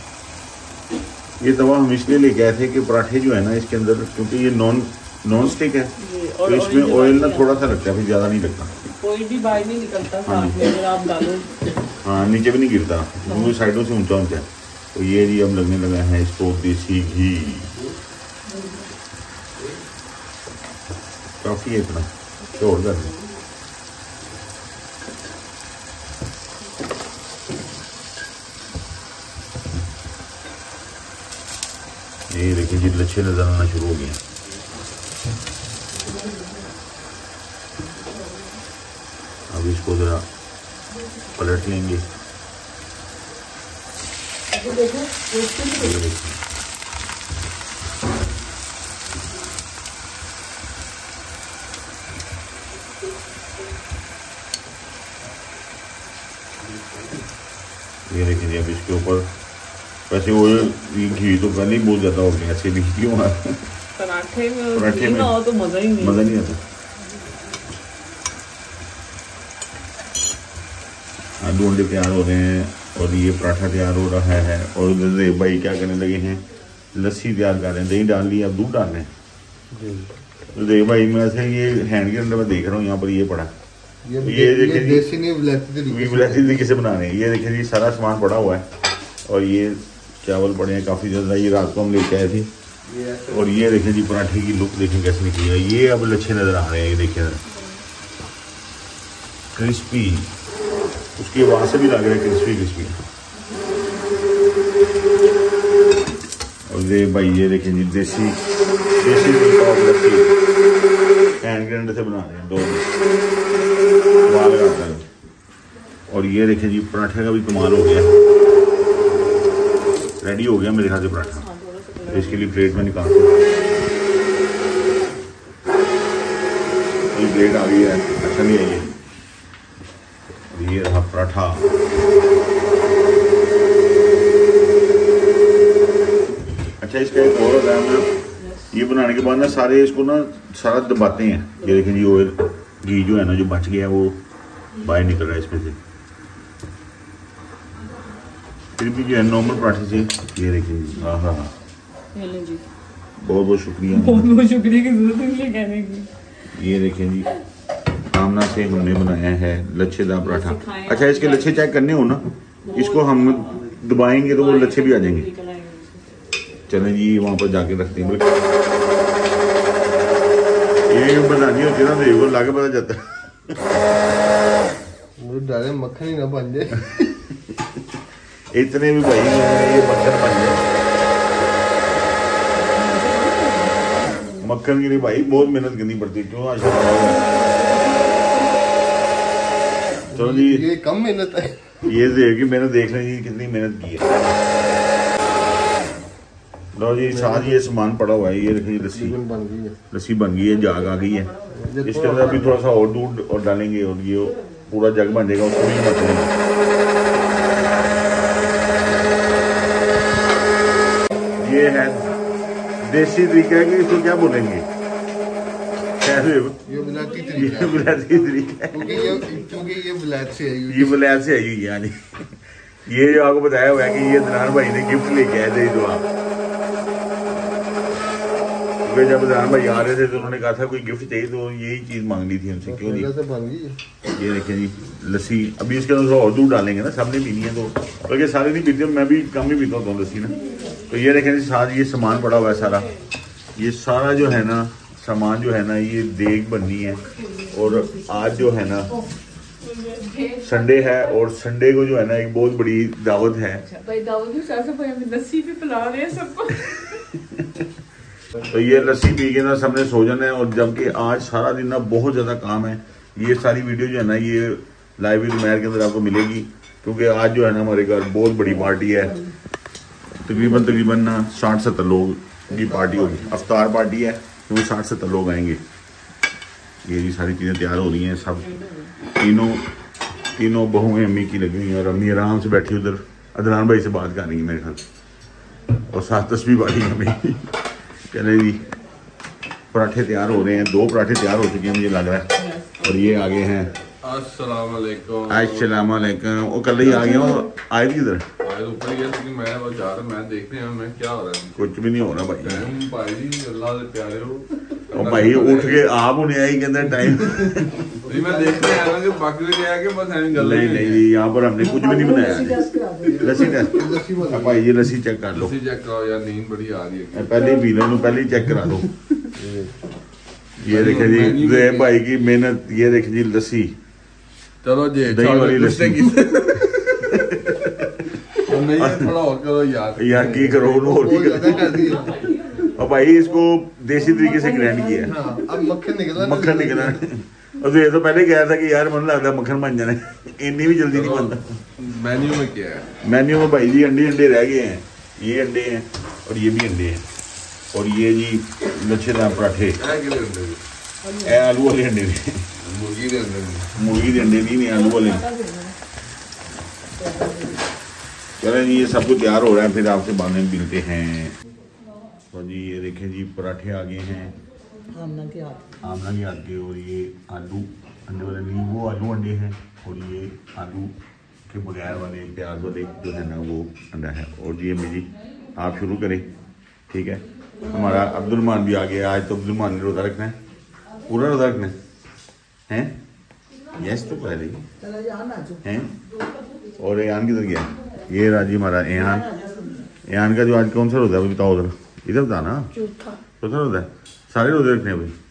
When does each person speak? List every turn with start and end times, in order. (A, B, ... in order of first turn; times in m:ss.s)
0:01.4-0:05.9 A
0:06.0-0:07.7 B
0:06.4-0:08.8 A
0:09.0-0:11.7 B
0:10.2-0:10.6 A
0:12.0-0:17.7 A
0:13.2-0:13.5 B
0:21.4-0:23.1 A
0:22.4-0:23.3 B
0:32.3-0:34.2 A
0:36.0-0:36.6 C
0:39.5-0:40.2 A
0:41.3-0:42.0 A
0:44.5-0:46.0 C
0:45.7-0:46.4 A
0:58.1-0:59.3 A
1:00.1-1:03.7 A
1:04.0-1:06.3 B
1:04.7-1:05.4 A
1:06.0-1:06.6 A
1:11.4-1:19.1 A
1:19.7-1:20.1 D
1:20.5-1:23.5 A
1:24.0-1:26.7 D
1:24.2-1:25.1 A
1:25.9-1:28.7 A
1:29.2-1:32.5 A
1:32.8-1:33.7 D
1:33.3-1:37.4 A
1:37.5-1:37.8 B
1:39.5-1:40.3 A
1:41.2-1:43.0 A
1:46.7-1:48.4 A
1:49.0-1:50.3 A
1:51.4-1:53.0 A
1:54.2-1:55.0 A
1:56.1-1:58.1 A
2:00.2-2:01.4 A
2:01.0-2:02.7 B
2:02.1-2:03.4 A
2:07.1-2:08.9 A
2:10.5-2:11.7 A
2:16.8-2:18.1 A
2:18.4-2:18.7 B
2:18.7-2:24.2 A
2:21.6-2:21.8 B
2:24.8-2:25.8 A
2:28.8-2:31.5 A
2:32.1-2:32.6 B
2:33.2-2:34.3 A
2:33.9-2:36.1 B
2:36.5-2:37.3 A
2:38.0-2:45.3 A
2:40.2-2:41.8 B
2:42.6-2:46.2 B
2:46.7-2:48.4 A
2:50.9-2:53.6 A
2:55.2-2:56.9 D
2:56.9-2:57.8 A
2:58.5-3:00.7 A
3:02.5-3:04.4 C
3:04.4-3:07.3 A
3:07.3-3:08.2 C
3:10.1-3:11.9 D
3:10.1-3:10.7 A
3:11.8-3:14.3 A
3:16.7-3:19.2 A
3:17.0-3:17.6 D
3:18.9-3:19.8 D
3:19.9-3:21.3 A
3:20.4-3:21.8 B
3:21.5-3:22.6 D
3:21.8-3:26.4 A
3:24.3-3:24.6 B
3:31.4-3:32.1 A
3:32.8-3:34.6 A
3:36.0-3:36.6 A
3:36.6-3:38.0 D
3:36.7-3:38.0 B
3:37.3-3:39.1 A
3:38.7-3:41.0 D
3:38.8-3:39.5 B
3:40.6-3:46.0 A
3:48.8-3:53.1 A
3:52.6-3:53.8 D
3:54.0-4:02.9 A
4:00.2-4:00.9 C
4:00.4-4:00.9 B
4:02.1-4:03.0 B
4:03.5-4:09.0 A
4:07.1-4:09.1 C
4:09.6-4:11.1 B
4:10.4-4:13.6 A
4:13.6-4:16.8 B
4:16.8-4:17.6 A
4:18.4-4:29.2 A
4:28.4-4:29.3 C
4:30.2-4:35.6 A
4:32.5-4:33.4 D
4:36.8-4:39.7 A
4:38.2-4:38.9 B
4:40.3-4:44.8 A
4:45.8-4:48.6 A
4:49.7-4:52.3 A
4:52.3-4:53.3 B
4:52.8-4:53.7 A
4:54.0-4:55.7 E
4:55.3-4:58.2 A
4:56.9-4:57.4 C
4:58.4-5:01.7 E
5:01.6-5:02.7 A
5:02.4-5:05.9 E
5:04.9-5:08.0 A
5:08.0-5:11.1 E
5:08.0-5:08.8 D
5:10.3-5:12.7 A
5:11.6-5:13.7 C
5:13.0-5:14.7 D
5:13.2-5:15.6 A
5:15.3-5:17.4 E
5:17.1-5:19.2 A
5:17.4-5:18.2 C
5:19.4-5:19.7 D
5:20.6-5:23.7 A
5:20.6-5:22.0 E
5:24.6-5:27.2 E
5:25.1-5:29.1 A
5:28.3-5:31.1 E
5:30.0-5:32.0 A
5:30.2-5:32.3 D
5:31.4-5:33.2 B
5:32.7-5:35.2 A
5:34.0-5:35.6 C
5:35.0-5:37.0 D
5:36.1-5:41.6 A
5:40.9-5:42.9 E
5:43.0-5:47.0 A
5:47.7-5:49.8 A
5:49.8-5:50.6 E
5:51.0-5:51.4 C
5:51.2-5:52.5 A
5:52.6-5:53.7 E
5:53.7-5:55.2 A
5:54.6-5:55.7 B
5:56.9-5:57.6 C
5:58.4-6:01.3 A
6:02.3-6:04.4 A
6:04.9-6:05.8 C
6:05.8-6:10.9 A
6:11.5-6:16.3 A
6:16.9-6:20.4 A
6:17.6-6:18.4 C
6:21.1-6:21.8 A
6:22.7-6:23.0 A
6:23.7-6:24.7 A
6:24.8-6:25.6 C
6:25.6-6:25.9 A
6:26.8-6:29.2 A
6:28.9-6:29.9 C
6:30.0-6:32.7 A
6:32.7-6:33.2 C
6:33.4-6:35.1 A